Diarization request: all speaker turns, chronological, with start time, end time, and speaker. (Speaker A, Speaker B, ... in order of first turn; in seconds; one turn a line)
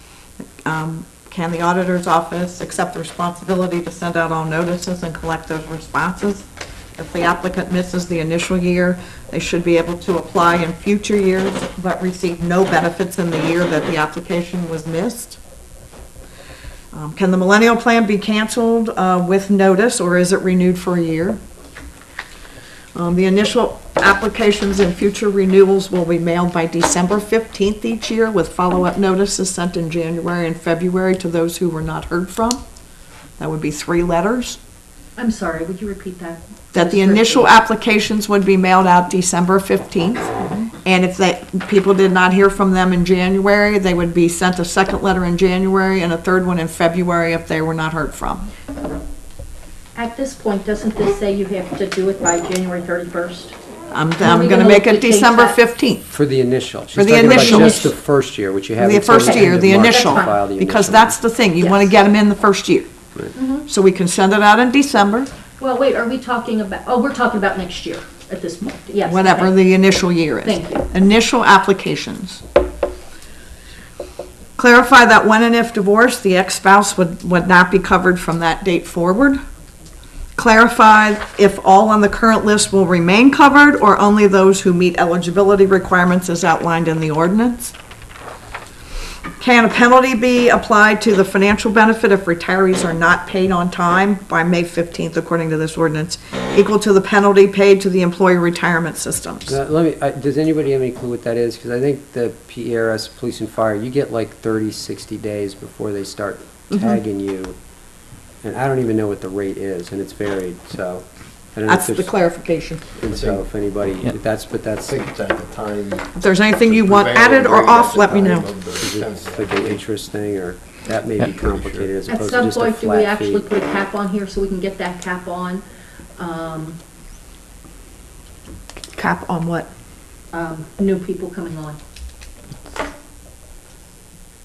Speaker A: 0.4-15.4
Speaker A: 16.9-21.4
Speaker A: 22.9-32.6
Speaker A: 33.4-34.6
Speaker B: 35.2-37.5
Speaker A: 36.7-48.5
Speaker B: 50.0-53.5
Speaker A: 53.9-56.1
Speaker B: 54.2-55.6
Speaker C: 56.1-61.2
Speaker A: 57.0-57.9
Speaker B: 57.2-57.8
Speaker A: 58.8-62.9
Speaker B: 59.1-60.4
Speaker B: 63.4-63.7
Speaker A: 63.7-65.3
Speaker B: 65.6-69.6
Speaker A: 69.0-72.4
Speaker B: 70.4-70.9
Speaker A: 74.6-79.4
Speaker A: 80.4-87.7
Speaker A: 89.4-99.6
Speaker C: 99.5-107.6
Speaker A: 106.7-107.0
Speaker C: 108.4-112.1
Speaker A: 111.7-112.8
Speaker C: 113.0-115.0
Speaker D: 113.0-113.5
Speaker D: 114.8-119.8
Speaker A: 116.2-118.5
Speaker C: 118.1-123.4
Speaker D: 121.5-121.9
Speaker B: 122.1-125.6
Speaker B: 126.2-126.8
Speaker A: 128.9-129.7
Speaker B: 130.3-131.8